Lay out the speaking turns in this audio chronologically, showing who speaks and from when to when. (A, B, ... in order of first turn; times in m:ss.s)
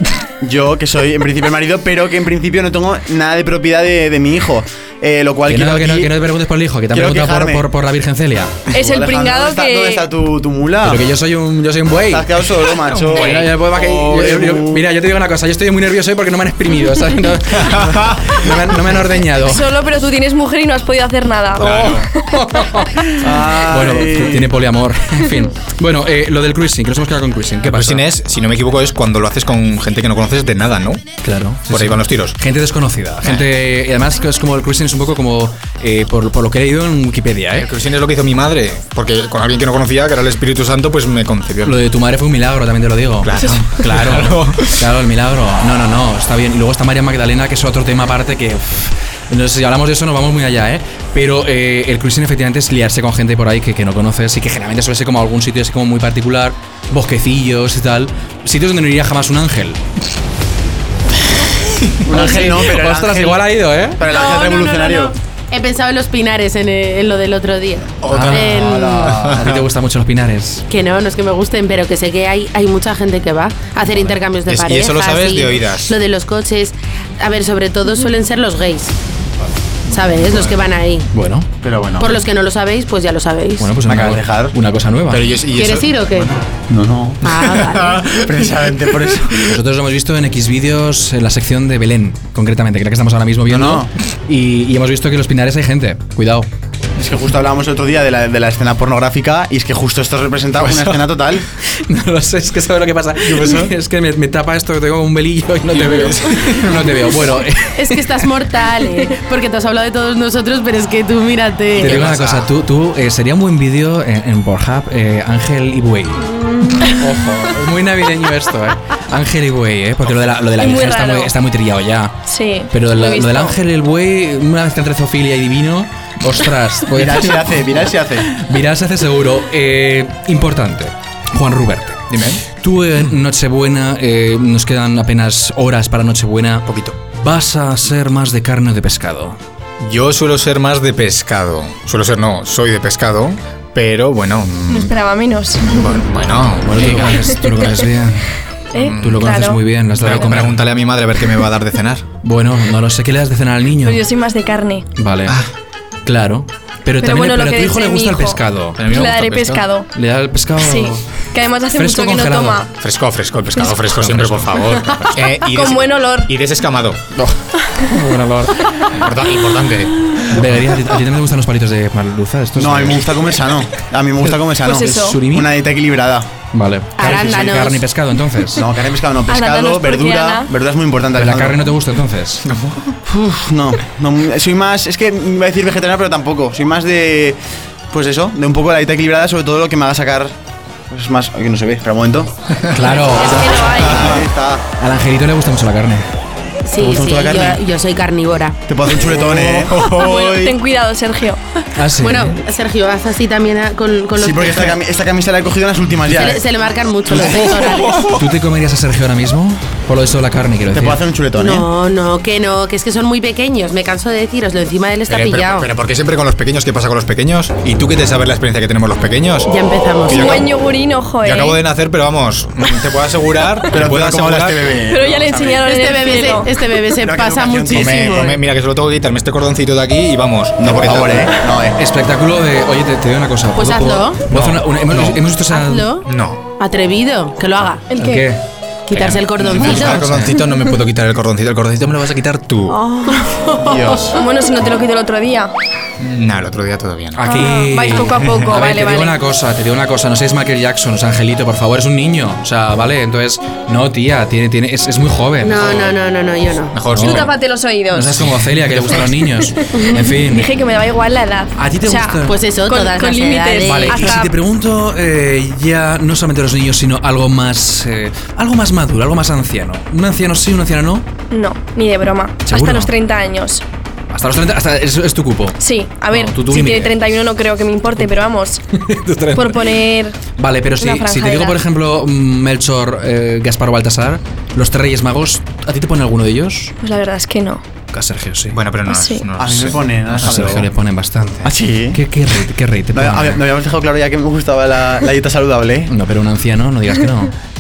0:00.4-0:06.1 A
0:05.5-0:08.6 B
0:06.9-0:07.6 A
0:08.7-0:11.0 A
0:08.7-0:10.1 C
0:10.8-0:19.6 B
0:12.1-0:14.8 A
0:17.6-0:18.4 D
0:19.4-0:22.2 C
0:21.6-0:22.1 D
0:22.3-0:28.1 B
0:23.2-0:24.5 A
0:27.6-0:31.0 D
0:31.2-0:37.7 B
0:31.7-0:32.4 D
0:37.6-0:41.8 D
0:41.6-0:59.8 B
0:43.2-0:44.8 D
1:02.1-1:05.1 A
1:02.1-1:04.0 B
1:04.0-1:09.3 E
1:08.0-1:09.4 D
1:08.1-1:08.5 B
1:08.5-1:09.5 A
1:09.2-1:10.6 B
1:10.7-1:18.9 E
1:14.5-1:16.0 D
1:19.9-1:21.1 E
1:21.1-1:21.5 B
1:21.6-1:22.1 A
1:22.0-1:23.7 E
1:23.6-1:25.3 B
1:23.9-1:24.5 A
1:25.1-1:26.3 D
1:25.5-1:26.3 E
1:26.7-1:27.3 A
1:27.2-1:28.2 E
1:27.4-1:28.0 D
1:28.1-1:29.5 A
1:29.4-1:36.5 B
1:33.6-1:33.9 A
1:37.0-1:41.5 A
1:41.8-1:48.3 B
1:43.3-1:43.7 A
1:45.7-1:46.8 D
1:47.8-1:52.0 E
1:51.8-1:52.5 D
1:51.8-2:02.2 B
1:56.4-1:57.0 C
2:00.6-2:01.3 C
2:02.3-2:03.6 C
2:02.7-2:19.4 B
2:06.9-2:08.3 A
2:12.1-2:12.4 D
2:16.7-2:17.0 D
2:19.8-2:25.0 D
2:24.7-2:25.9 C
2:25.6-2:27.2 D
2:26.6-2:28.3 B
2:28.7-2:29.6 C
2:28.8-2:29.3 D
2:29.0-2:30.6 B
2:30.0-2:32.0 D
2:32.2-2:34.0 B
2:33.8-2:34.9 C
2:35.0-2:35.4 B
2:36.1-2:39.0 B
2:37.0-2:39.9 C
2:38.8-2:39.6 D
2:39.9-2:41.0 B
2:40.6-2:42.7 C
2:41.7-2:42.6 B
2:42.8-2:47.0 D
2:44.0-2:44.6 B
2:45.4-2:46.3 C
2:47.2-2:48.8 B
2:48.9-2:50.3 D
2:50.3-2:53.1 B
2:52.6-2:56.3 A
2:54.6-2:55.2 C
2:54.8-2:55.5 B
2:56.5-2:58.7 B
2:57.0-2:57.8 E
2:58.6-3:01.7 A
2:59.3-3:00.5 C
3:01.2-3:02.5 B
3:02.5-3:02.9 D
3:03.1-3:07.4 A
3:07.9-3:10.3 A
3:10.9-3:12.3 A
3:12.7-3:13.9 B
3:13.2-3:14.2 C
3:13.8-3:14.6 A
3:14.8-3:16.1 B
3:16.7-3:18.6 E
3:16.8-3:17.6 A
3:18.7-3:20.5 A
3:19.7-3:20.0 D
3:19.9-3:21.4 C
3:21.8-3:22.4 B
3:22.0-3:24.8 E
3:24.2-3:26.4 A
3:26.1-3:28.1 E
3:27.3-3:31.0 B
3:30.7-3:31.7 A
3:31.4-3:35.7 E
3:35.1-3:39.5 D
3:39.5-3:40.4 E
3:40.1-3:40.5 D
3:40.1-3:41.6 C
3:41.2-3:44.7 D
3:43.7-3:45.7 A
3:44.9-3:46.5 C
3:45.6-3:48.3 E
3:47.0-3:48.5 A
3:47.7-3:51.4 D
3:50.6-3:51.8 A
3:51.8-3:55.9 B
3:53.6-3:54.2 E
3:54.3-3:55.2 D
3:55.5-3:56.1 E
3:56.0-3:56.4 D
3:56.6-3:57.9 E
3:57.9-3:58.3 C
3:57.9-3:58.4 B
3:58.9-4:00.1 E
3:58.9-4:00.3 B
3:59.0-4:02.8 D
4:02.7-4:04.2 E
4:03.6-4:04.2 D
4:04.1-4:05.5 C
4:06.0-4:07.5 D
4:07.1-4:15.9 B
4:07.2-4:09.2 C
4:15.4-4:16.8 E
4:16.7-4:17.4 D
4:16.9-4:17.3 B
4:17.0-4:18.4 C
4:17.9-4:20.5 B
4:19.0-4:24.3 C
4:19.7-4:20.1 E
4:21.6-4:22.4 B
4:22.3-4:24.2 E
4:23.6-4:31.1 B
4:31.3-4:33.6 C
4:32.5-4:32.9 B
4:34.1-4:35.6 B
4:35.6-4:38.6 C
4:36.1-4:37.0 B
4:38.8-4:39.7 B
4:39.3-4:40.2 C
4:40.4-4:46.7 B
4:40.8-4:41.6 C
4:46.8-4:47.6 C
4:47.9-4:48.6 B
4:48.5-4:50.6 D
4:48.9-4:49.3 C
4:49.4-4:50.7 A
4:50.1-4:53.4 B
4:51.4-4:52.0 A
4:52.9-4:55.9 A
4:55.9-4:57.3 B